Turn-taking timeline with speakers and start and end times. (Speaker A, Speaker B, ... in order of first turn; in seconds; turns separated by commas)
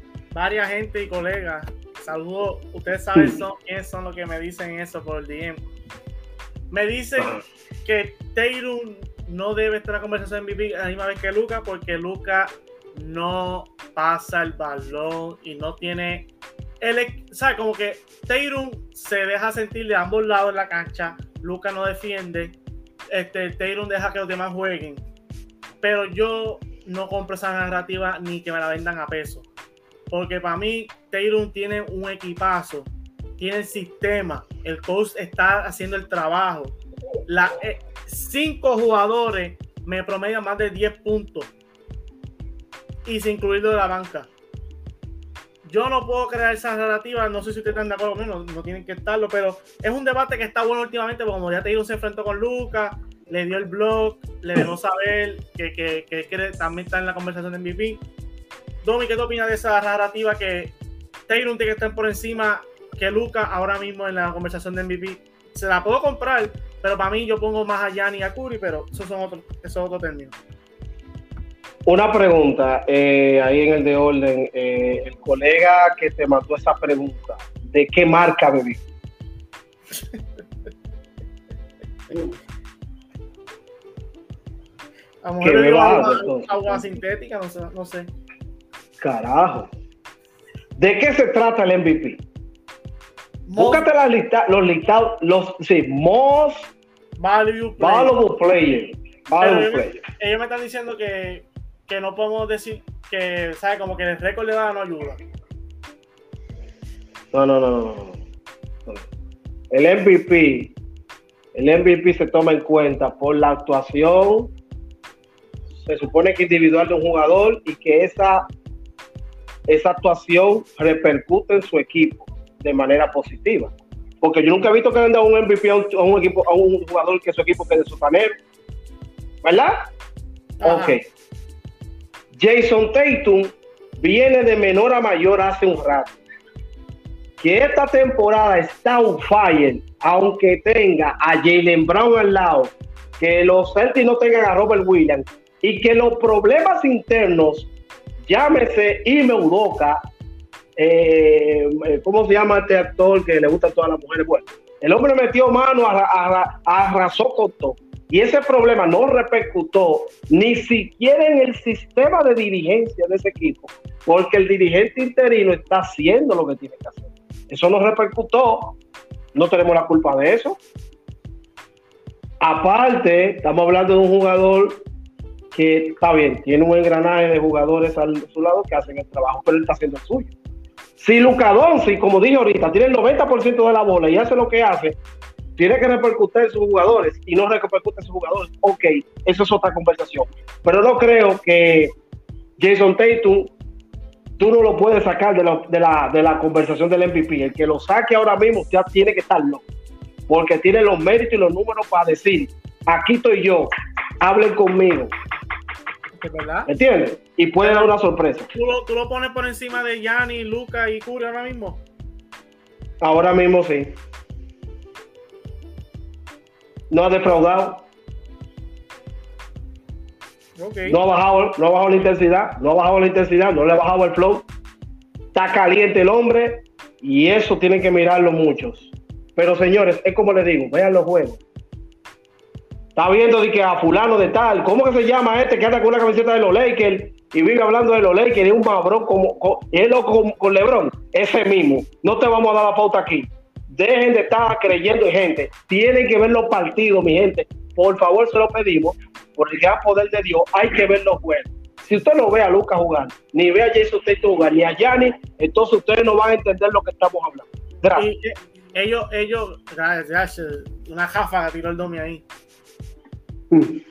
Speaker A: 0.3-5.6, Speaker A: 6.7-16.3, Speaker A: 16.8-22.6, Speaker A: 23.1-25.0, Speaker A: 25.8-29.5, Speaker A: 30.1-36.8, Speaker A: 37.3-41.5, Speaker A: 43.0-44.3, Speaker A: 45.6-58.0, Speaker A: 58.8-60.7, Speaker A: 61.3-70.4, Speaker B: 71.9-78.8, Speaker A: 79.9-80.2, Speaker A: 85.2-88.1, Speaker B: 85.4-86.9, Speaker B: 89.0-89.7, Speaker B: 90.8-92.2, Speaker A: 93.5-93.9, Speaker B: 93.6-96.7, Speaker A: 97.2-98.2, Speaker B: 97.8-100.0, Speaker A: 99.3-105.2, Speaker B: 107.3-108.2, Speaker B: 109.7-110.7, Speaker B: 111.5-114.5, Speaker B: 115.8-118.5, Speaker B: 119.7-128.3, Speaker B: 129.4-129.8, Speaker A: 130.6-131.0, Speaker B: 130.6-131.0, Speaker B: 132.4-136.2, Speaker B: 137.4-147.7, Speaker B: 148.3-150.0, Speaker B: 150.8-168.8, Speaker B: 169.3-170.6, Speaker B: 172.4-174.8, Speaker B: 175.5-180.3, Speaker B: 181.0-185.0, Speaker B: 185.6-191.9, Speaker B: 192.6-193.5, Speaker B: 194.4-199.6, Speaker B: 200.3-205.1, Speaker A: 206.2-206.7, Speaker B: 206.7-208.5, Speaker A: 207.6-207.9, Speaker A: 208.5-211.8, Speaker B: 213.0-213.9, Speaker B: 216.9-217.8, Speaker A: 220.6-221.0, Speaker B: 220.9-224.5, Speaker B: 225.3-231.4, Speaker B: 233.0-258.1, Speaker A: 258.0-262.2, Speaker B: 263.5-263.8